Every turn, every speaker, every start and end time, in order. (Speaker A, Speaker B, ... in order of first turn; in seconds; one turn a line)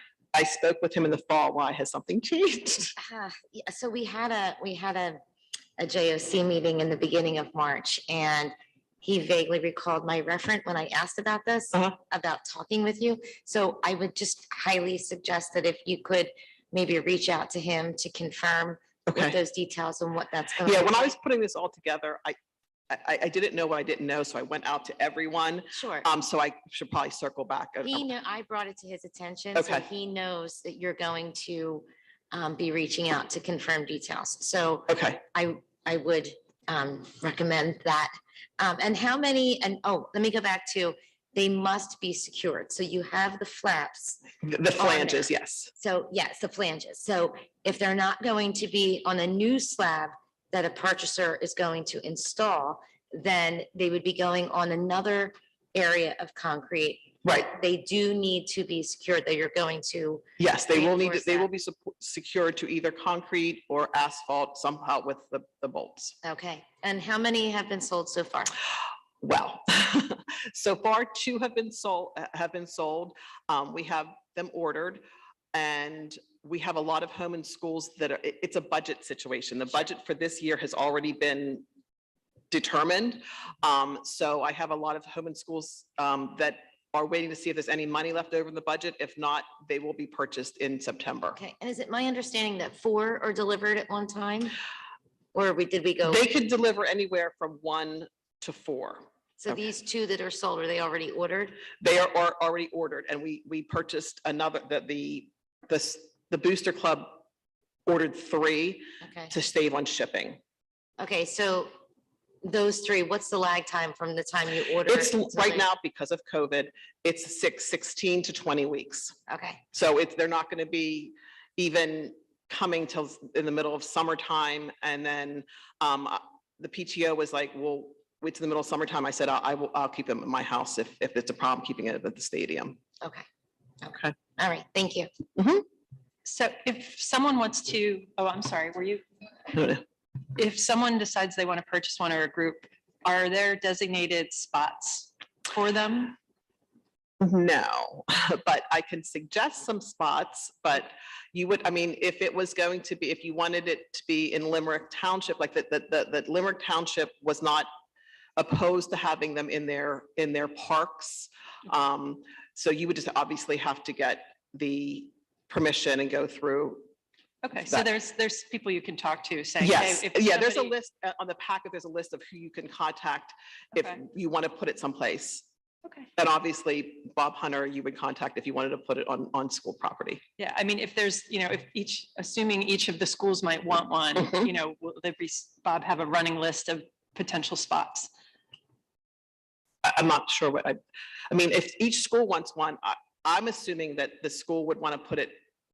Speaker A: 0.3-2.9
Speaker B: 3.0-5.2
Speaker B: 5.8-21.1
Speaker A: 19.1-19.4
Speaker A: 20.6-22.4
Speaker A: 22.9-28.1
Speaker B: 25.7-26.1
Speaker B: 27.8-44.2
Speaker A: 29.5-29.9
Speaker A: 34.9-35.2
Speaker A: 44.4-45.7
Speaker B: 44.8-61.5
Speaker A: 60.4-66.1
Speaker B: 66.2-68.5
Speaker A: 69.2-81.7
Speaker A: 82.5-91.4
Speaker B: 91.3-94.5
Speaker B: 95.3-96.2
Speaker A: 96.0-99.1
Speaker B: 99.4-101.6
Speaker A: 101.8-107.2
Speaker A: 107.8-110.4
Speaker B: 109.0-109.3
Speaker B: 111.0-111.7
Speaker B: 112.4-115.7
Speaker A: 114.8-119.1
Speaker B: 119.3-119.6
Speaker A: 119.7-132.8
Speaker B: 133.0-133.3
Speaker B: 133.8-135.1
Speaker A: 135.4-135.6
Speaker C: 136.2-139.0
Speaker A: 139.5-139.8
Speaker C: 140.3-146.2
Speaker A: 147.2-157.7
Speaker A: 158.4-166.9
Speaker C: 167.4-170.7
Speaker A: 169.6-175.5
Speaker A: 176.2-180.2
Speaker C: 180.4-188.1
Speaker A: 184.2-184.5
Speaker A: 189.8-190.8
Speaker A: 191.3-195.4